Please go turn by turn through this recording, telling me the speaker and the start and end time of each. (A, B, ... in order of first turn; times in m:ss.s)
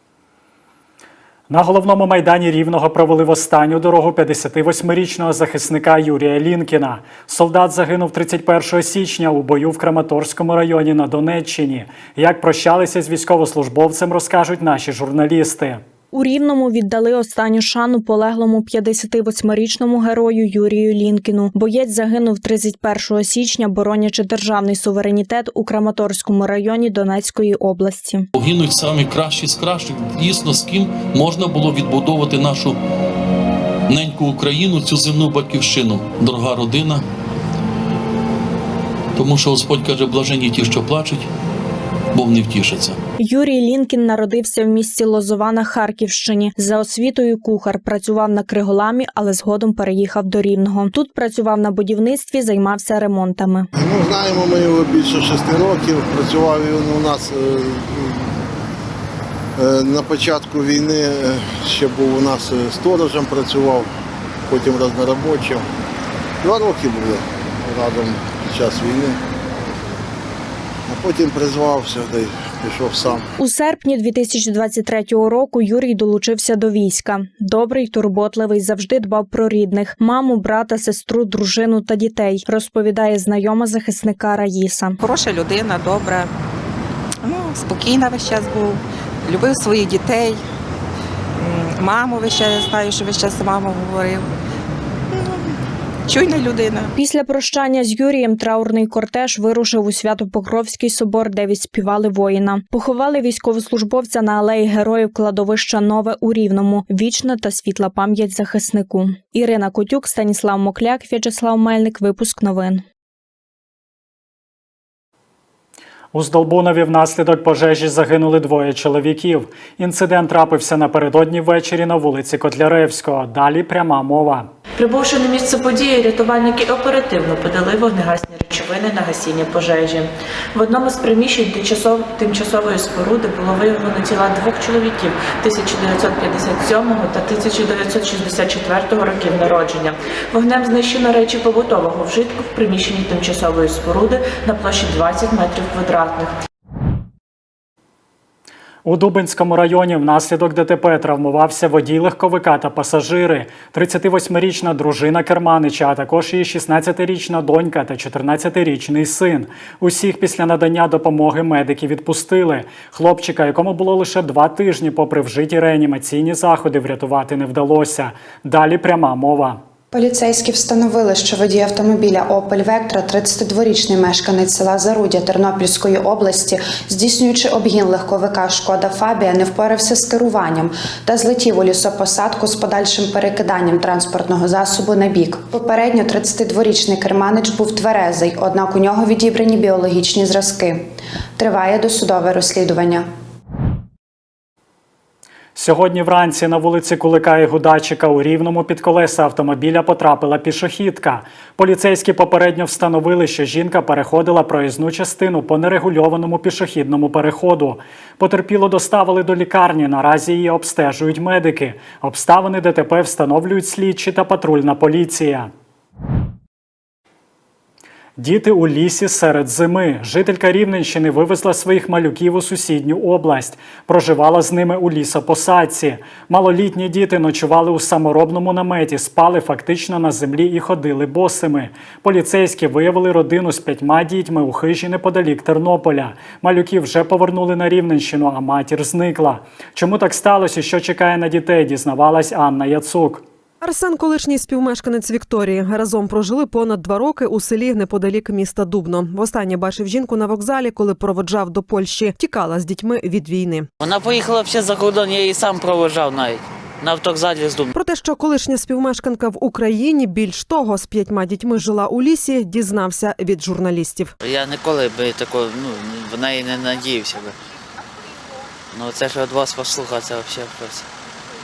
0:01.5-0:15.8 A
0:16.1-0:28.3 B
0:28.3-0:32.8 C
0:33.9-0:37.0 C
0:39.2-0:41.3 C
0:42.1-0:43.0 C
0:43.2-0:53.7 B
0:53.8-0:58.2 D
0:59.6-1:03.9 D
1:04.5-1:05.6 D
1:06.4-1:09.2 D
1:10.9-1:13.2 D
1:13.4-1:25.0 B
1:25.0-1:26.3 E
1:27.2-1:30.4 E
1:31.4-1:34.2 E
1:36.1-1:36.8 E
1:37.0-1:52.8 B
1:56.1-2:04.5 A
2:04.8-2:26.3 F
2:28.8-2:49.6 A
2:49.9-3:10.8 G
3:11.4-3:13.0 G
3:15.6-3:35.5 A
3:38.2-4:03.2 A
4:03.6-4:13.7 H
4:13.8-4:17.7 I
4:17.7-4:24.1 H
4:24.2-4:27.3 I
4:28.7-4:30.8 I